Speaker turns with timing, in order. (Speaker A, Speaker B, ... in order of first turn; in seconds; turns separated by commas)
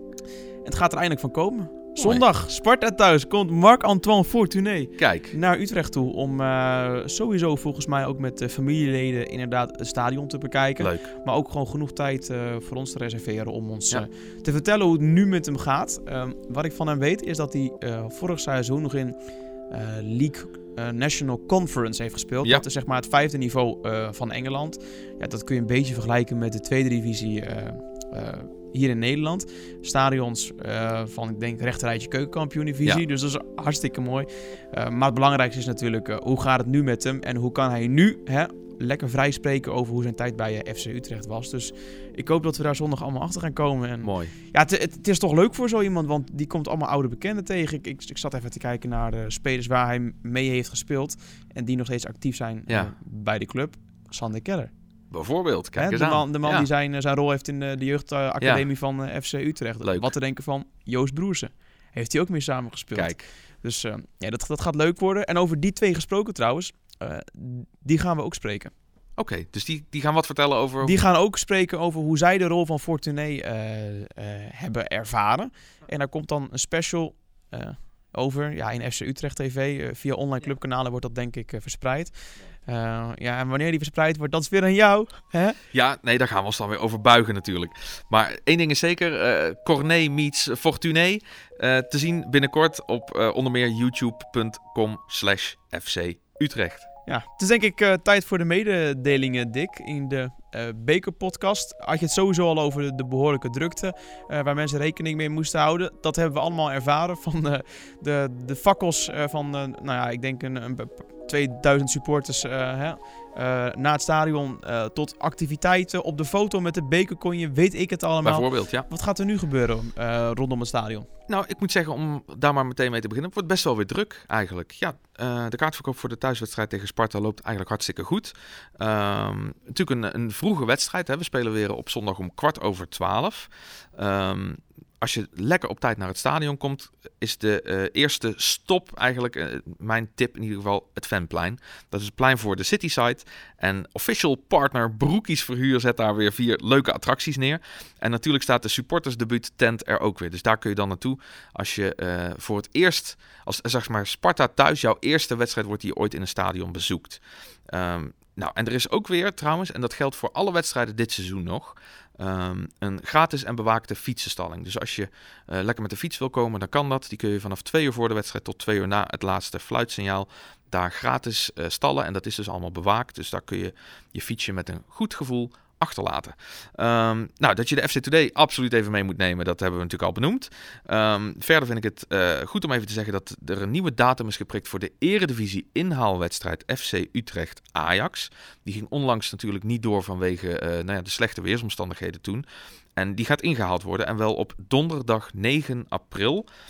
Speaker A: 0.6-54.7, Speaker B: 2.0-2.2, Speaker B: 5.0-5.3, Speaker B: 10.8-11.1, Speaker B: 44.0-44.3, Speaker B: 55.1-56.7, Speaker A: 55.8-68.7, Speaker B: 59.8-60.1, Speaker B: 62.9-63.2, Speaker B: 69.2-71.0, Speaker A: 70.8-85.6, Speaker B: 85.7-96.9, Speaker A: 97.1-121.1, Speaker B: 118.2-118.9, Speaker B: 121.3-192.4, Speaker B: 192.9-196.5